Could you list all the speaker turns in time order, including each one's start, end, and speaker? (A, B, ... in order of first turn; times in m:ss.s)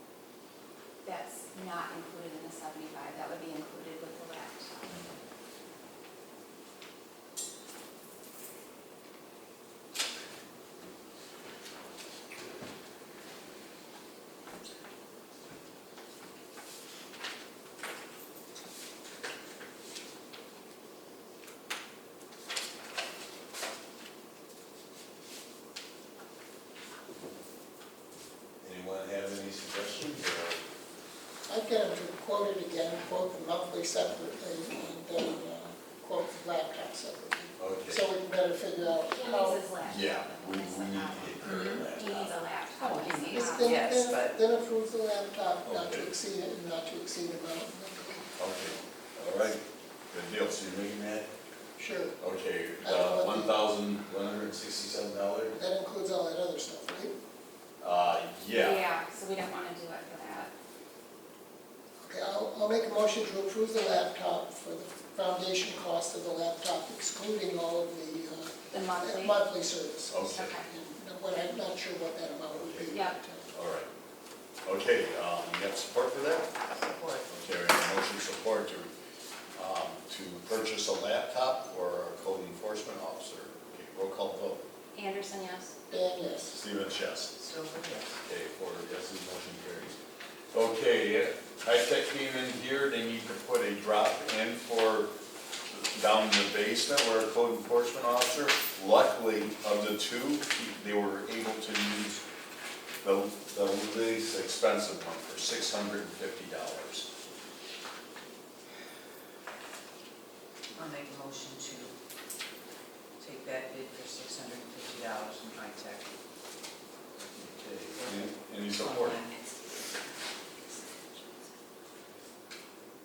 0:01.0-0:04.9 A
0:28.6-0:30.6 B
0:31.5-0:39.6 C
0:37.6-0:38.0 B
0:38.9-0:43.8 A
0:39.8-0:42.4 B
0:42.8-0:44.4 D
0:43.3-0:48.3 C
0:45.6-0:46.1 B
0:48.4-0:51.3 B
0:51.8-0:52.2 C
0:52.2-0:55.5 B
0:52.8-0:53.6 C
0:55.5-0:57.1 C
0:57.8-0:58.8 B
0:58.5-1:00.5 A
1:02.0-1:13.5 C
1:08.7-1:09.4 A
1:10.1-1:10.5 B
1:10.3-1:10.6 A
1:12.5-1:12.9 B
1:12.9-1:13.2 A
1:13.5-1:13.9 B
1:14.6-1:16.5 B
1:16.7-1:17.3 D
1:17.3-1:18.9 B
1:19.5-1:24.6 B
1:24.9-1:25.7 A
1:25.9-1:26.6 C
1:26.5-1:27.4 B
1:27.4-1:28.2 D
1:28.2-1:30.0 B
1:30.5-1:35.1 B
1:35.7-1:42.2 B
1:43.0-1:47.1 B
1:50.7-1:51.9 D
1:53.2-1:56.1 D
1:57.2-1:59.2 B
1:58.0-1:59.5 D